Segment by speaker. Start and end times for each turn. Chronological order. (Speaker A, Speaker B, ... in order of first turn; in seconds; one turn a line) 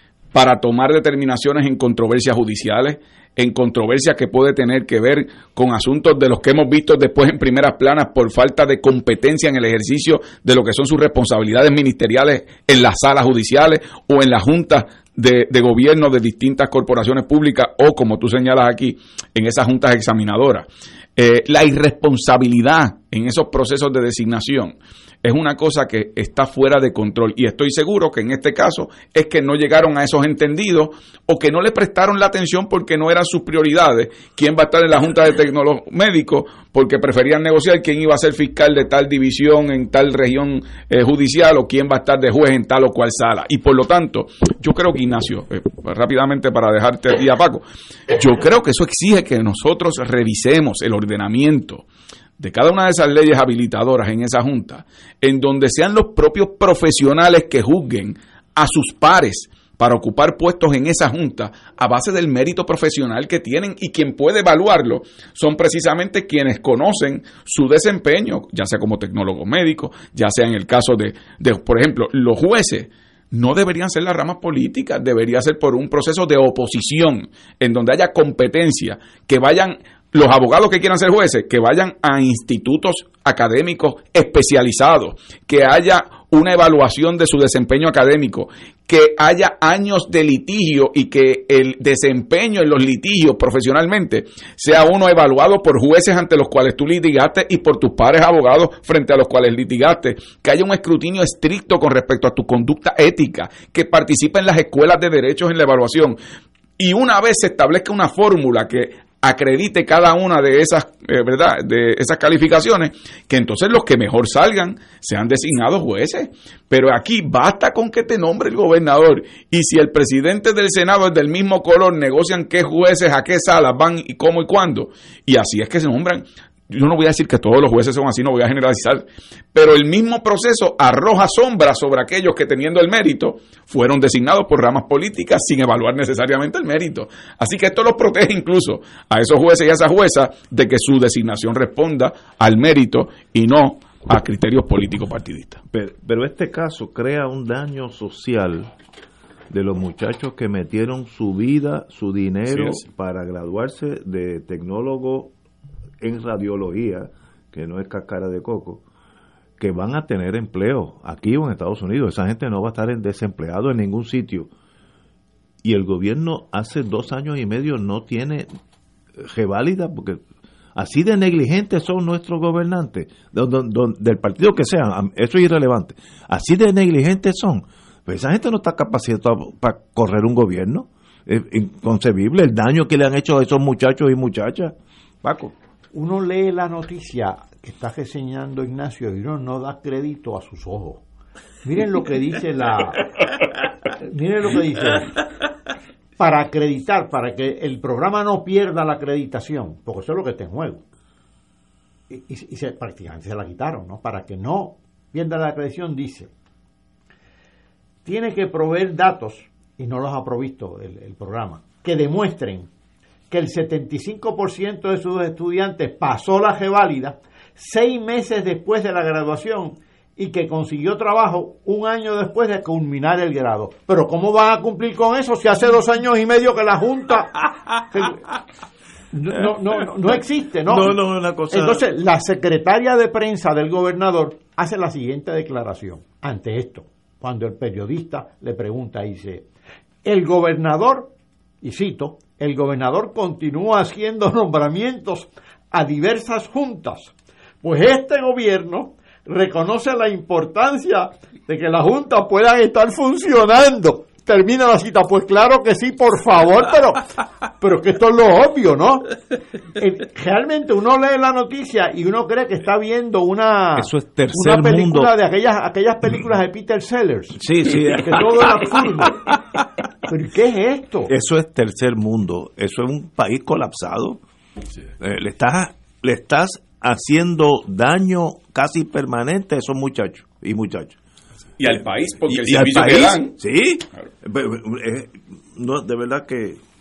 Speaker A: 0.3-51.8
Speaker A: 52.4-106.2
Speaker A: 106.8-145.6
Speaker B: 145.7-148.7
Speaker B: 149.5-155.3
Speaker A: 152.5-152.8
Speaker B: 156.0-158.8
Speaker B: 159.6-164.5
Speaker B: 165.6-168.5
Speaker B: 169.2-170.2
Speaker B: 170.8-185.5
Speaker C: 185.9-191.0
Speaker C: 191.6-193.1
Speaker C: 194.0-195.2
Speaker C: 196.2-200.8
Speaker C: 202.1-206.3
Speaker C: 208.1-212.7
Speaker C: 213.3-228.2
Speaker C: 229.1-231.0
Speaker B: 230.7-231.8
Speaker C: 231.5-239.5
Speaker C: 240.0-241.1
Speaker C: 241.6-257.0
Speaker C: 257.6-259.1
Speaker C: 259.8-269.3
Speaker B: 263.8-265.1
Speaker B: 267.4-269.6
Speaker C: 270.1-271.1
Speaker B: 271.1-274.2
Speaker B: 275.0-281.0
Speaker A: 281.6-283.4
Speaker B: 282.3-286.6